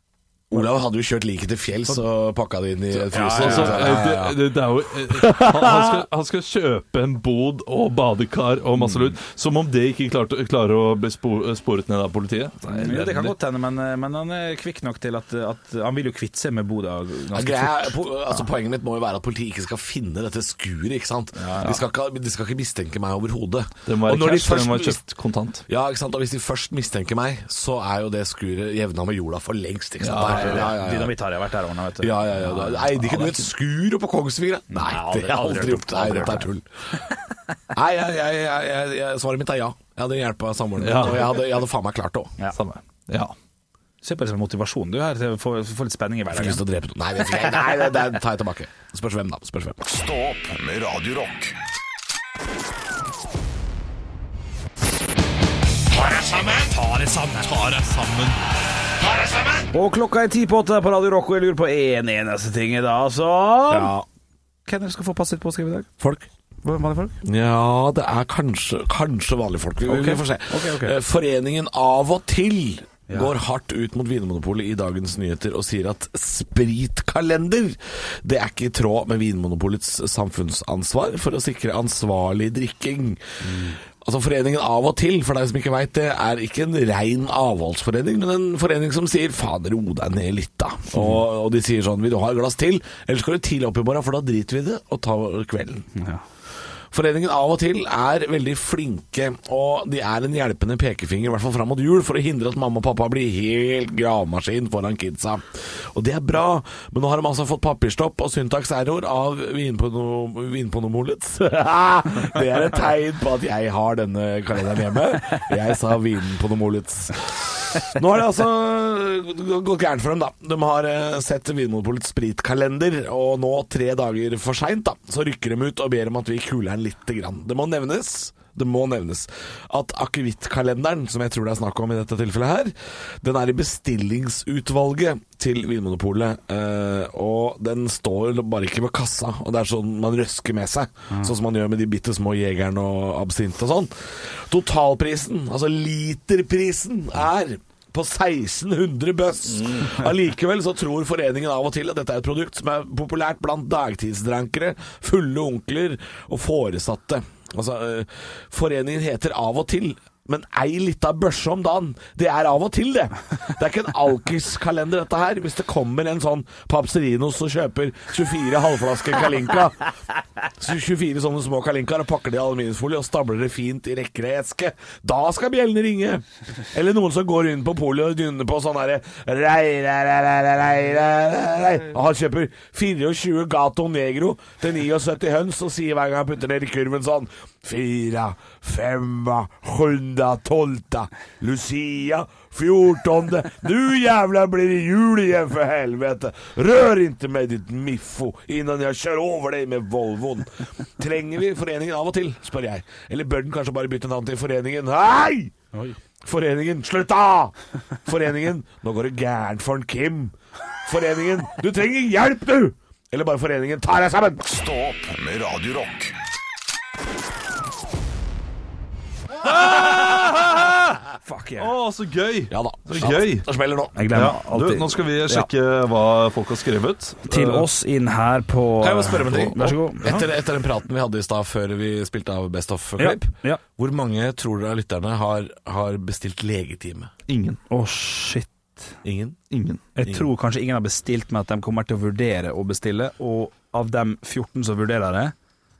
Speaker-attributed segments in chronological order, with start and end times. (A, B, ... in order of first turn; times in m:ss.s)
0:00.5-0:04.4 A
0:03.1-0:03.9 B
0:03.3-0:13.3 C
0:05.2-0:06.0 A
0:12.7-0:18.0 B
0:17.3-0:25.0 A
0:21.3-0:21.8 B
0:23.8-0:25.6 C
0:25.7-0:31.1 A
0:30.0-0:30.7 C
0:30.3-0:33.4 B
0:32.0-0:36.6 A
0:34.7-0:36.5 B
0:37.7-0:42.3 A
0:40.8-0:41.4 C
0:42.5-0:43.3 C
0:44.0-0:46.6 B
0:46.3-0:49.8 A
0:49.8-0:51.6 D
0:56.4-0:57.5 B
0:57.4-0:58.4 C
0:59.7-1:03.9 B
1:03.7-1:04.0 A
1:04.6-1:06.0 B
1:06.0-1:06.2 A
1:06.6-1:07.2 B
1:07.2-1:35.9 A
1:09.8-1:11.0 B
1:23.4-1:23.8 B
1:35.9-1:36.2 B
1:36.9-2:49.9 A
2:50.5-3:25.5 A
3:26.2-3:27.5 A
3:28.0-3:34.4 A
3:34.4-3:36.2 D
3:39.4-3:41.0 C
3:41.2-3:41.7 B
3:41.6-3:43.5 C
3:42.5-3:44.1 A
3:44.0-3:45.5 B
3:44.1-3:47.7 C
3:47.3-3:50.3 B
3:48.8-3:57.1 A
3:49.3-3:49.7 C
3:53.0-3:53.6 B
3:57.3-3:57.6 C
3:57.7-3:58.8 B
3:59.0-3:59.4 A
3:59.5-3:59.8 C
4:00.0-4:05.3 B